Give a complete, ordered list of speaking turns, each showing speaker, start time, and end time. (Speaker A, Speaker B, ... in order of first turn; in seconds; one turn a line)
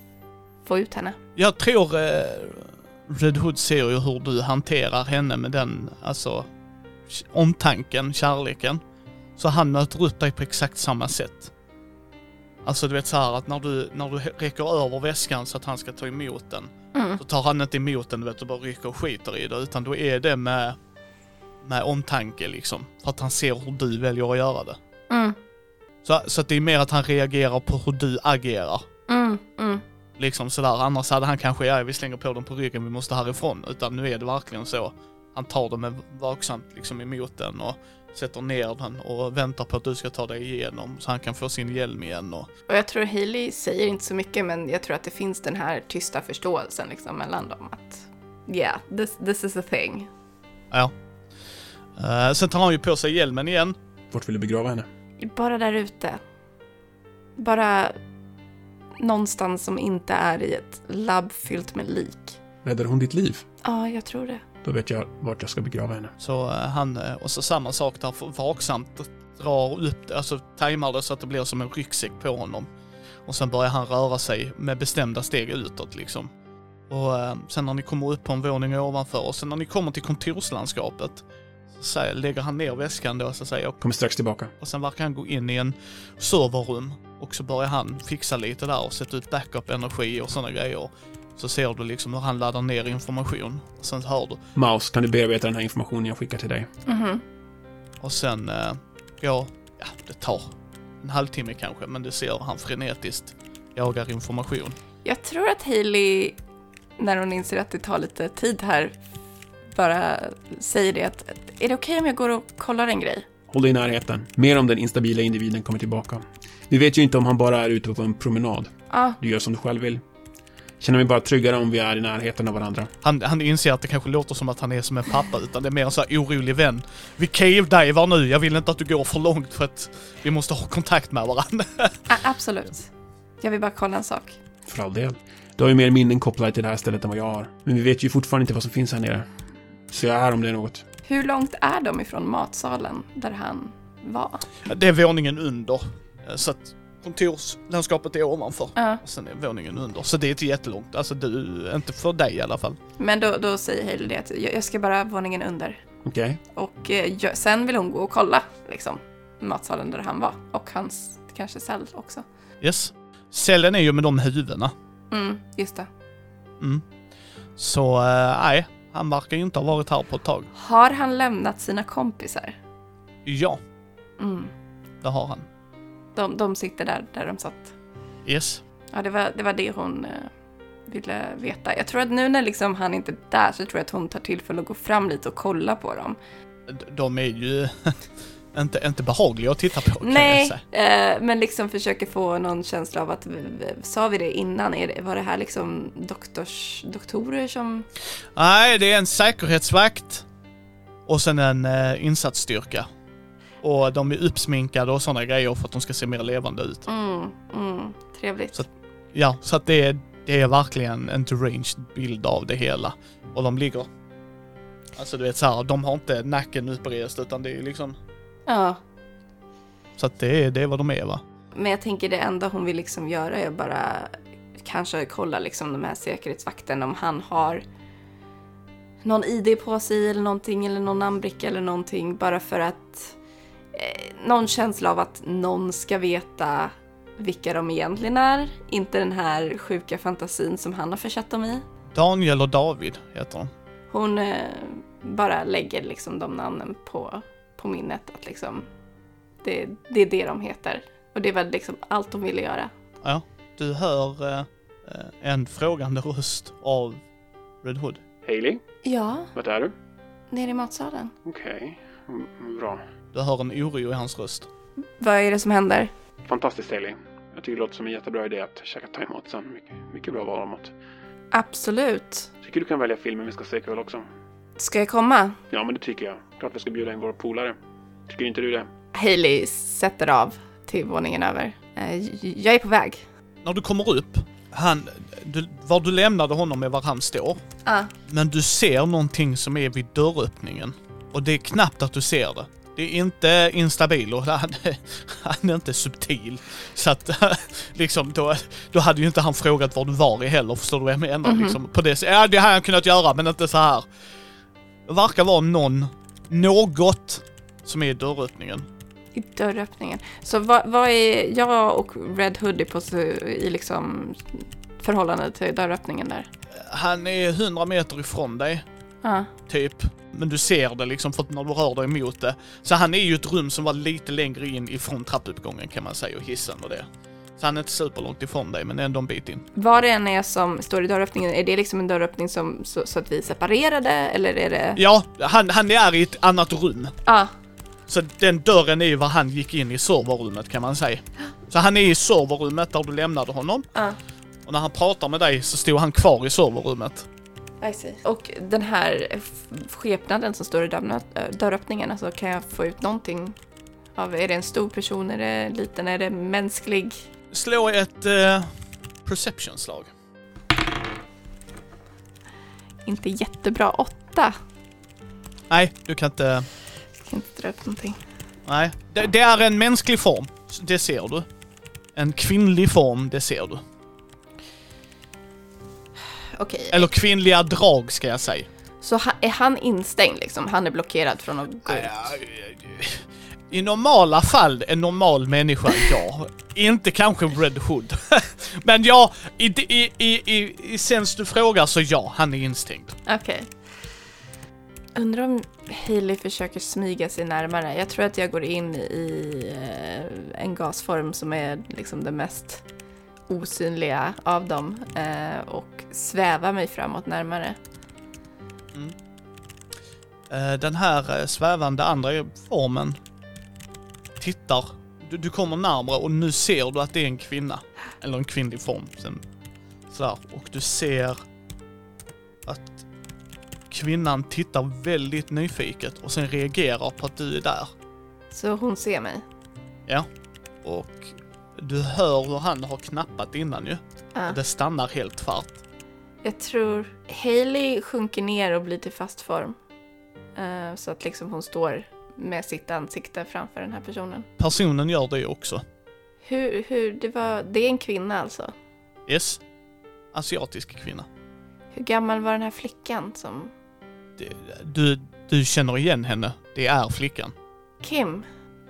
Speaker A: 0.6-1.2
Speaker B: 1.4-6.5
Speaker B: 7.1-8.8
Speaker B: 9.4-11.5
Speaker B: 12.6-20.8
Speaker A: 16.9-17.2
Speaker B: 21.6-24.8
Speaker A: 25.1-25.4
Speaker B: 26.0-28.8
Speaker A: 29.1-29.8
Speaker B: 30.2-42.5
Speaker A: 42.7-50.1
Speaker B: 52.0-53.8
Speaker C: 54.1-54.9
Speaker A: 55.2-56.2
Speaker A: 57.4-58.0
Speaker A: 59.0-62.4
Speaker C: 62.6-63.4
Speaker A: 63.6-64.4
Speaker C: 64.6-66.1
Speaker B: 66.2-72.7
Speaker B: 73.2-76.3
Speaker B: 76.9-81.2
Speaker B: 81.7-83.8
Speaker C: 83.8-84.5
Speaker B: 84.6-94.4
Speaker C: 94.5-96.7
Speaker A: 96.8-97.2
Speaker B: 98.0-104.8
Speaker A: 105.0-106.4
Speaker A: 107.0-108.9
Speaker A: 109.7-113.2
Speaker C: 113.5-120.0
Speaker A: 118.9-119.2
Speaker C: 120.8-122.9
Speaker B: 123.0-132.1
Speaker A: 132.1-132.9
Speaker A: 133.4-134.4
Speaker C: 134.7-139.2
Speaker C: 139.9-140.8
Speaker A: 141.1-144.4
Speaker B: 144.7-152.8
Speaker A: 148.8-149.0
Speaker A: 153.0-155.8
Speaker C: 156.0-156.4
Speaker A: 156.5-162.2
Speaker B: 162.6-164.7
Speaker A: 165.1-165.9
Speaker B: 167.6-170.5
Speaker A: 170.5-172.6
Speaker B: 173.2-173.6
Speaker A: 174.2-174.5
Speaker B: 175.0-175.4
Speaker A: 176.2-177.7
Speaker B: 178.2-178.6
Speaker A: 178.9-180.3
Speaker A: 180.9-186.2
Speaker B: 186.7-188.0
Speaker B: 188.5-190.6
Speaker A: 190.0-197.9
Speaker B: 198.3-200.2
Speaker B: 201.1-202.9
Speaker B: 203.6-206.9
Speaker A: 206.8-208.6
Speaker B: 208.5-213.9
Speaker B: 214.9-218.0
Speaker A: 218.5-218.8
Speaker B: 220.0-221.2
Speaker A: 221.5-227.6
Speaker A: 229.0-233.2
Speaker A: 233.7-241.6
Speaker B: 241.9-243.5
Speaker A: 243.9-248.7
Speaker A: 249.4-252.7
Speaker B: 253.0-257.0
Speaker B: 257.6-258.0
Speaker C: 258.2-258.6
Speaker A: 258.8-259.3
Speaker C: 259.3-259.7
Speaker A: 260.3-261.1
Speaker C: 261.2-262.8
Speaker B: 263.1-264.5
Speaker A: 265.0-265.9
Speaker C: 266.2-270.7
Speaker A: 271.3-272.3
Speaker C: 272.4-274.0
Speaker A: 274.6-275.4
Speaker C: 275.5-277.5
Speaker C: 278.1-278.7
Speaker A: 278.9-283.0
Speaker B: 283.4-287.4
Speaker A: 287.6-287.9
Speaker B: 288.1-303.8
Speaker A: 301.2-301.6
Speaker B: 304.9-308.7
Speaker A: 309.1-316.3
Speaker B: 316.5-318.6
Speaker A: 319.0-319.3
Speaker B: 319.5-326.9
Speaker B: 327.4-329.4
Speaker A: 329.6-334.8
Speaker B: 334.8-336.9
Speaker A: 337.1-337.3
Speaker B: 337.9-343.7
Speaker B: 344.4-347.1
Speaker A: 347.6-353.4
Speaker A: 353.9-357.0
Speaker B: 357.3-358.5
Speaker B: 359.0-359.9
Speaker A: 362.9-364.3
Speaker B: 365.5-366.5
Speaker A: 367.0-368.0
Speaker B: 368.4-371.2
Speaker B: 371.9-373.6
Speaker A: 376.3-376.9
Speaker B: 376.7-378.5
Speaker A: 378.8-382.1
Speaker B: 381.7-392.9
Speaker A: 393.1-393.5
Speaker A: 394.9-402.6
Speaker A: 403.3-407.6
Speaker B: 410.3-413.0
Speaker B: 414.2-419.2
Speaker B: 419.9-421.2
Speaker B: 422.4-422.8
Speaker B: 423.7-427.7
Speaker A: 428.3-429.2
Speaker B: 430.6-435.6
Speaker A: 436.2-439.6
Speaker A: 440.4-444.3
Speaker B: 444.4-445.6
Speaker A: 446.2-448.5
Speaker B: 449.1-449.4
Speaker B: 450.1-451.1
Speaker A: 451.7-453.5
Speaker B: 454.2-457.3
Speaker A: 457.8-458.3